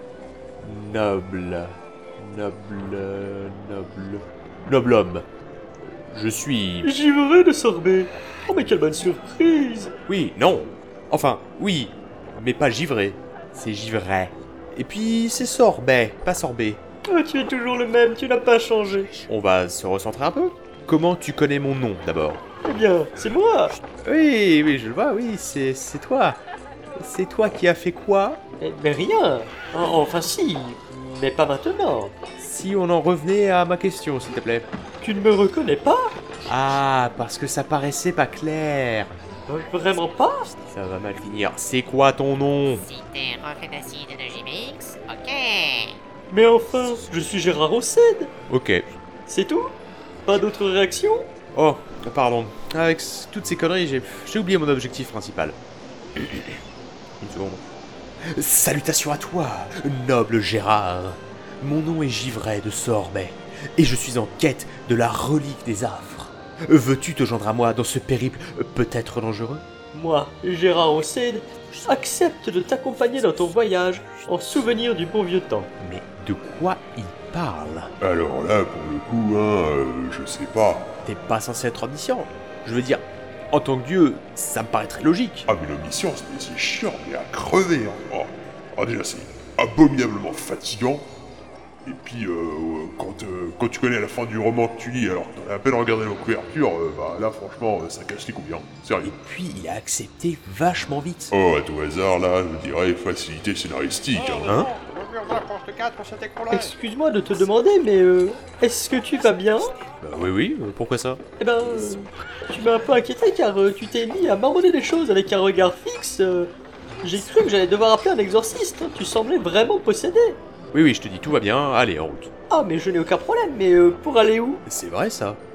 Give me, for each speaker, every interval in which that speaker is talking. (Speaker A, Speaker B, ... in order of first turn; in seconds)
Speaker A: 0.6-5.2, 6.1-6.9, 10.1-16.8, 19.3-22.4, 24.0-26.4, 27.0-28.4, 32.4-34.7, 36.5-39.1, 40.7-42.8, 48.5-48.8, 51.5-55.6, 56.2-56.6, 57.2-57.6, 58.2-69.6, 75.8-77.9, 81.0-85.5, 99.0-101.3, 104.4-104.7, 110.0-111.2, 120.7-122.3, 124.7-125.4
Speaker B: 6.8-9.9, 17.1-19.2, 22.6-23.7, 28.6-32.1, 35.0-36.2, 39.5-40.5, 46.3-48.3, 49.3-49.7, 50.2-51.3, 69.9-75.7, 106.5-109.7, 111.4-120.4, 122.5-124.6
Speaker C: 42.8-46.0
Speaker D: 78.0-80.9, 85.5-91.0, 91.8-99.1, 101.3-104.6
Speaker E: 104.4-106.6